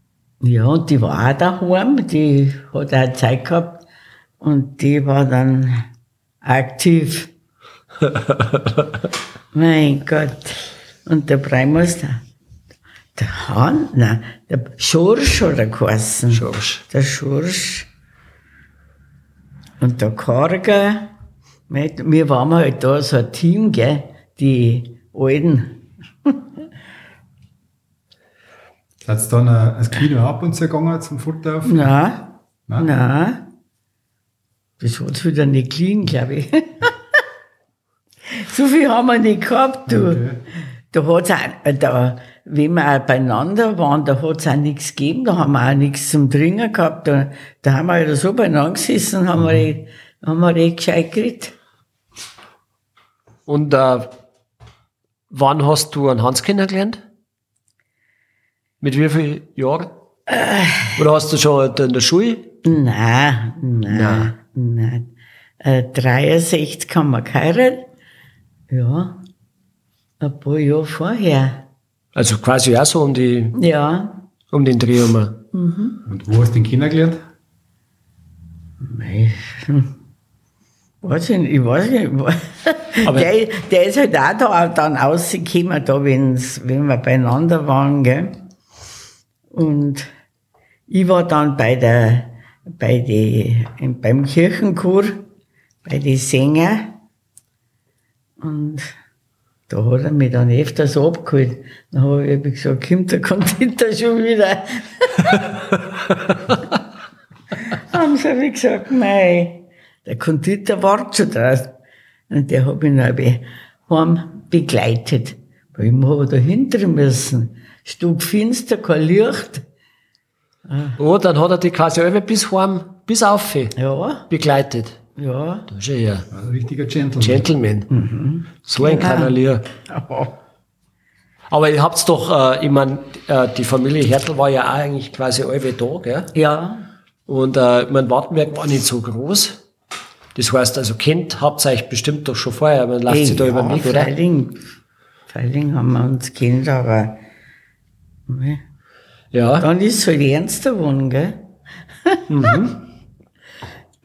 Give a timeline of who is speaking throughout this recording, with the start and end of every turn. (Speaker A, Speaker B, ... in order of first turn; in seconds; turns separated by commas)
Speaker A: 0.4-3.8, Speaker A: 4.4-5.9, Speaker A: 6.4-7.3, Speaker B: 8.2-8.7, Speaker A: 9.5-12.2, Speaker A: 13.1-17.9, Speaker B: 16.3-16.8, Speaker A: 19.8-21.1, Speaker A: 21.7-26.5, Speaker C: 29.0-31.9, Speaker A: 31.6-33.5, Speaker A: 34.8-37.2, Speaker A: 38.2-40.2, Speaker C: 39.9-40.4, Speaker A: 40.9-51.5, Speaker B: 53.5-54.1, Speaker B: 55.3-57.0, Speaker B: 58.8-59.9, Speaker A: 60.3-61.0, Speaker B: 61.0-62.5, Speaker A: 62.6-65.1, Speaker B: 63.9-64.3, Speaker A: 65.6-67.9, Speaker A: 68.7-69.2, Speaker A: 70.2-71.6, Speaker B: 72.1-73.5, Speaker A: 73.5-74.2, Speaker B: 74.5-75.4, Speaker A: 75.5-76.0, Speaker C: 76.0-77.2, Speaker A: 78.8-79.9, Speaker A: 81.0-88.4, Speaker A: 89.5-90.1, Speaker A: 90.9-95.2, Speaker A: 95.8-96.9, Speaker A: 98.4-98.9, Speaker A: 99.7-105.5, Speaker A: 107.6-111.7, Speaker A: 112.3-119.6, Speaker A: 120.7-121.0, Speaker B: 121.0-123.7, Speaker A: 123.8-124.3, Speaker B: 124.3-125.0, Speaker A: 125.2-125.7, Speaker B: 125.7-126.3, Speaker C: 126.3-127.5, Speaker B: 127.2-127.9, Speaker A: 127.9-130.3, Speaker B: 128.7-129.6, Speaker B: 131.5-136.3, Speaker A: 136.3-136.8, Speaker B: 137.3-139.6, Speaker B: 140.3-144.1, Speaker A: 143.1-144.6, Speaker A: 145.3-147.2, Speaker A: 148.3-148.6, Speaker B: 149.3-149.7, Speaker A: 149.6-151.4, Speaker B: 152.3-152.8